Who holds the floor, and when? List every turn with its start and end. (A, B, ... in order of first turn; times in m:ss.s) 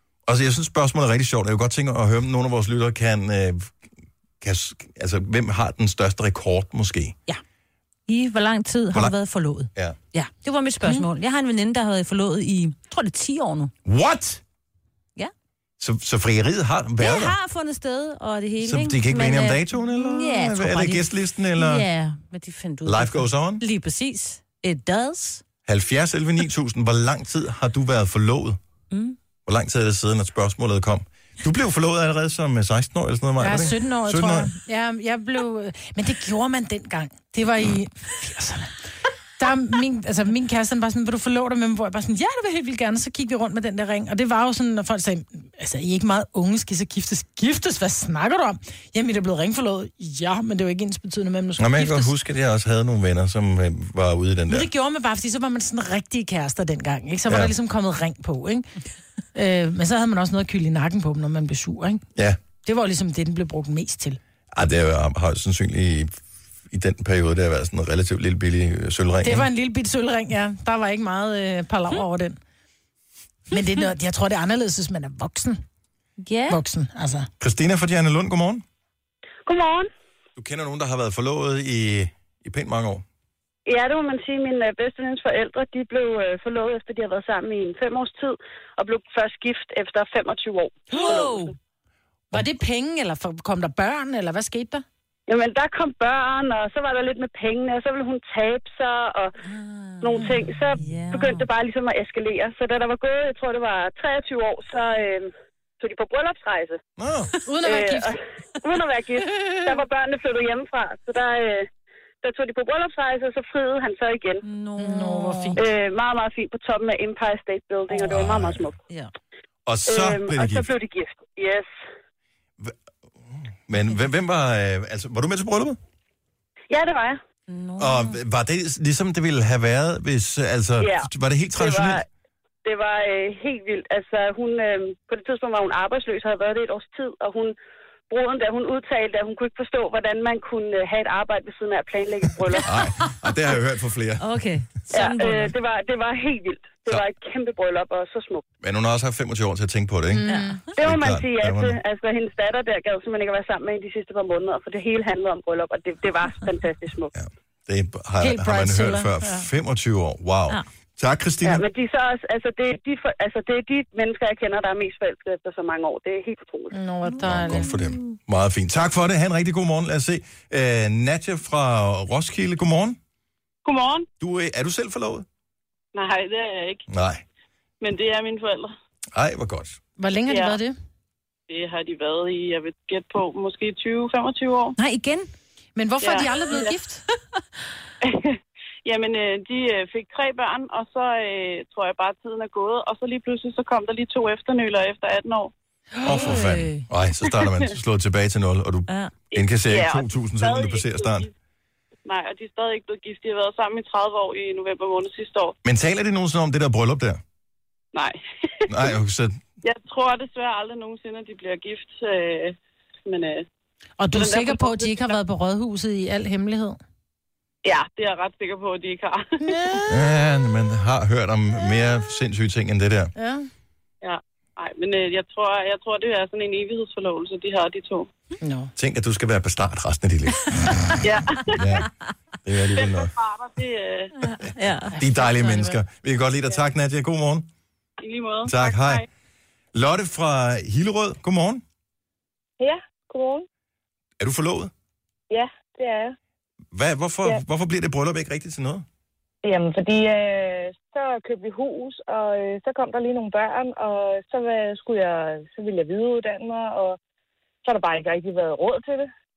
0:00.3-0:03.7 A
0:04.4-0:07.2 A
0:08.1-0:13.7 B
0:13.8-0:14.4 A
0:15.8-0:17.4 A
0:17.0-0:25.4 B
0:18.6-0:21.9 A
0:22.8-0:23.6 A
0:25.7-0:28.6 A
0:28.9-0:29.2 B
0:29.5-0:34.5 A
0:33.4-0:38.7 C
0:39.4-0:52.1 C
0:51.6-0:54.7 A
0:54.5-0:58.7 C
0:57.3-0:57.5 A
0:59.4-1:02.0 C
1:02.6-1:04.2 C
1:04.5-1:06.1 A
1:06.7-1:09.5 A
1:09.2-1:12.4 C
1:13.5-1:15.6 C
1:16.2-1:16.6 B
1:16.5-1:17.3 C
1:17.4-1:18.6 A
1:19.5-1:19.9 D
1:20.4-1:23.0 A
1:23.7-1:31.5 D
1:30.9-1:31.5 C
1:32.3-1:34.8 C
1:35.3-1:39.3 D
1:39.5-1:41.5 B
1:40.0-1:46.8 D
1:47.0-1:47.3 A
1:47.4-1:48.2 C
1:47.6-1:51.7 D
1:52.2-1:54.4 D
1:54.4-1:55.6 B
1:54.8-1:55.6 C
1:55.6-1:58.8 D
1:58.0-1:58.7 A
1:59.7-2:00.7 A
1:59.9-2:01.7 D
2:03.7-2:05.8 A
2:06.7-2:07.2 D
2:07.5-2:08.2 B
2:07.8-2:12.0 A
2:10.8-2:12.0 D
2:12.6-2:17.6 D
2:18.1-2:22.8 D
2:22.6-2:24.2 A
2:24.2-2:25.5 B
2:24.9-2:28.4 D
2:28.6-2:30.3 A
2:30.1-2:30.6 C
2:30.3-2:30.7 B
2:30.8-2:37.1 D
2:30.8-2:31.8 A
2:37.2-2:41.6 A
2:38.2-2:39.5 C
2:41.4-2:46.8 D
2:46.7-2:47.7 C
2:47.1-2:48.2 B
2:47.2-2:53.0 A
2:53.6-2:54.1 E
2:54.2-2:55.3 A
2:55.9-2:56.8 E
2:56.9-2:57.2 A
2:57.8-2:58.7 E
2:59.1-2:59.8 A
3:00.0-3:00.8 C
3:00.3-3:00.6 E
3:01.5-3:04.8 E
3:04.8-3:05.3 B
3:05.8-3:07.0 C
3:06.0-3:06.8 E
3:08.0-3:15.5 E
3:16.0-3:21.3 A
3:16.3-3:16.8 B
3:17.3-3:17.7 E
3:19.3-3:21.3 E
3:22.1-3:25.6 E
3:25.6-3:27.2 A
3:27.9-3:29.0 E
3:28.7-3:29.4 A
3:29.6-3:33.5 E
3:34.0-3:36.8 C
3:34.1-3:35.2 E
3:37.6-3:39.8 E
3:39.4-3:40.1 C
3:39.9-3:43.1 A
3:43.2-3:43.5 C
3:44.0-3:48.1 E
3:48.4-3:48.7 C
3:48.8-3:51.9 A
3:51.0-3:51.7 E
3:52.4-3:53.1 A
3:52.6-3:54.1 E
3:54.2-3:54.9 B
3:54.9-3:55.8 C
3:55.0-3:57.5 A
3:58.0-3:59.1 E
3:58.4-3:59.0 A
3:59.7-4:01.6 A
4:02.6-4:03.5 F
4:04.2-4:04.7 A
4:05.3-4:06.2 F
4:06.7-4:08.9 A
4:09.4-4:17.0 F
4:17.6-4:19.1 F